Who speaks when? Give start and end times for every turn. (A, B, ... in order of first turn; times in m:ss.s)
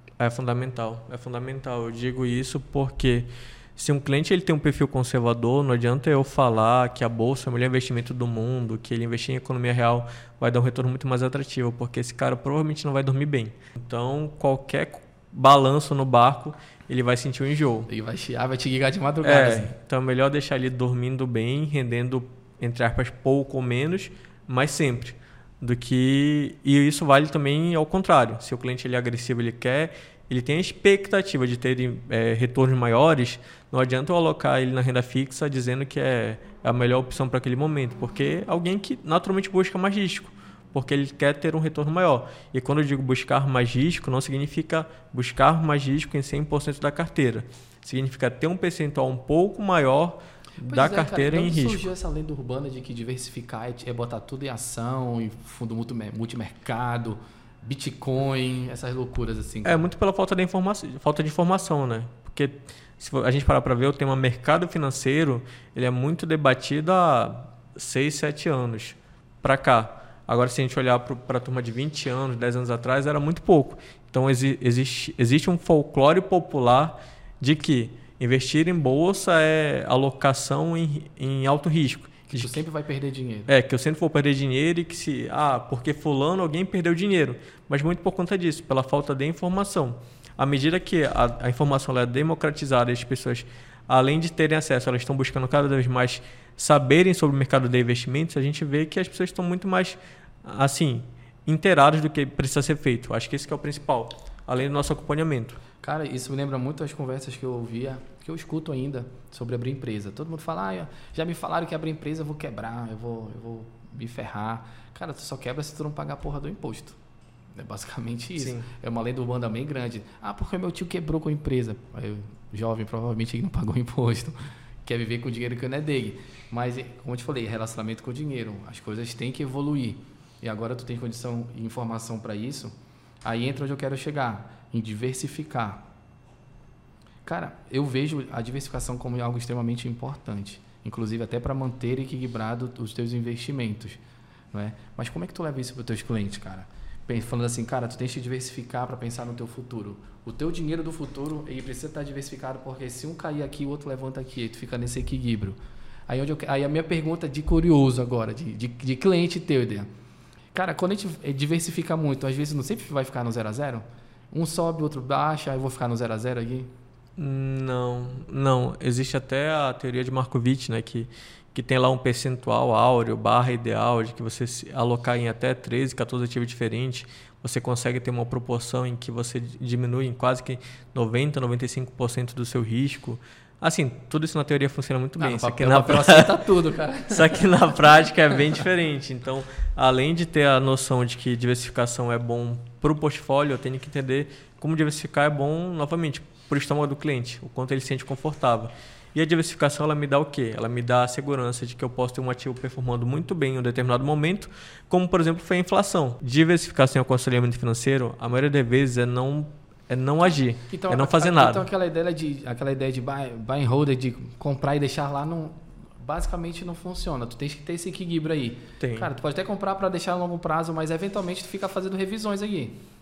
0:00.2-0:17.9 A
0:17.9-0:19.7 B
0:19.2-0:51.9 A
0:50.6-0:59.9 B
0:59.6-1:22.5 A
1:22.3-1:23.5 B
1:23.5-1:45.6 A
1:45.8-1:57.0 B
1:57.6-2:15.8 B
1:58.4-1:58.7 A
2:17.2-2:24.0 B
2:24.5-2:35.6 B
2:36.1-2:39.9 B
2:40.5-2:46.7 B
2:47.2-3:06.4 A
3:05.2-3:07.6 B
3:07.1-3:31.6 A
3:30.7-3:42.8 B
3:38.8-3:39.1 A